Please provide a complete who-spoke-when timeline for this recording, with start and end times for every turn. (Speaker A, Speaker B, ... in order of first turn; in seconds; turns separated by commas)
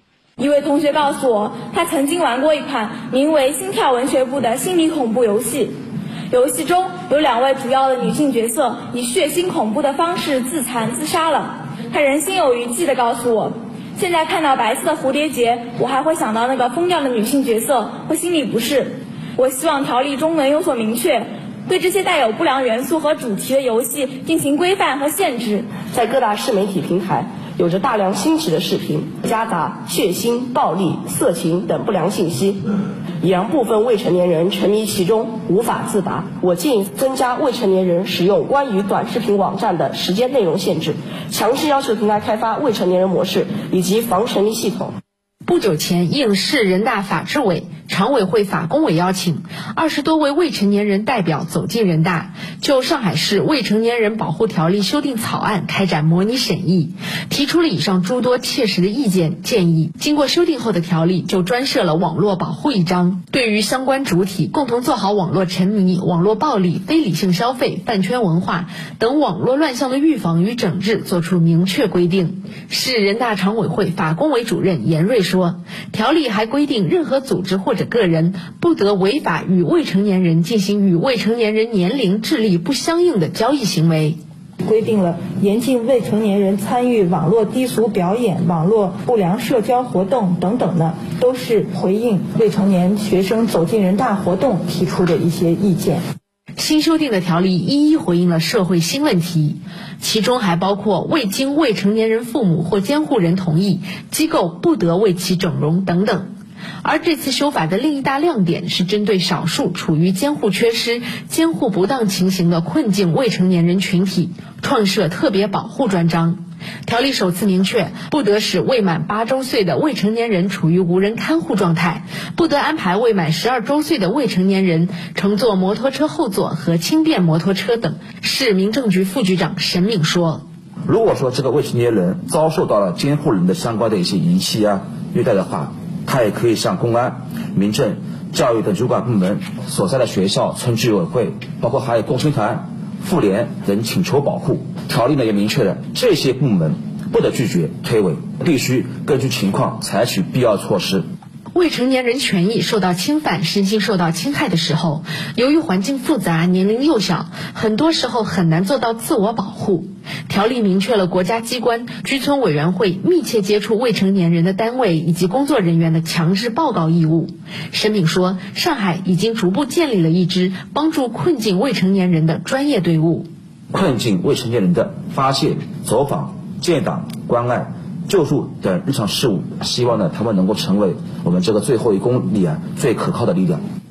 Speaker A: 0.4-5.7, Speaker A: 6.3-25.7, Speaker B: 25.8-32.6, Speaker B: 33.2-44.9, Speaker C: 45.5-84.2, Speaker D: 84.6-96.0, Speaker C: 96.6-106.3, Speaker C: 106.8-130.4, Speaker E: 130.9-151.0, Speaker C: 151.5-173.3, Speaker E: 173.7-183.6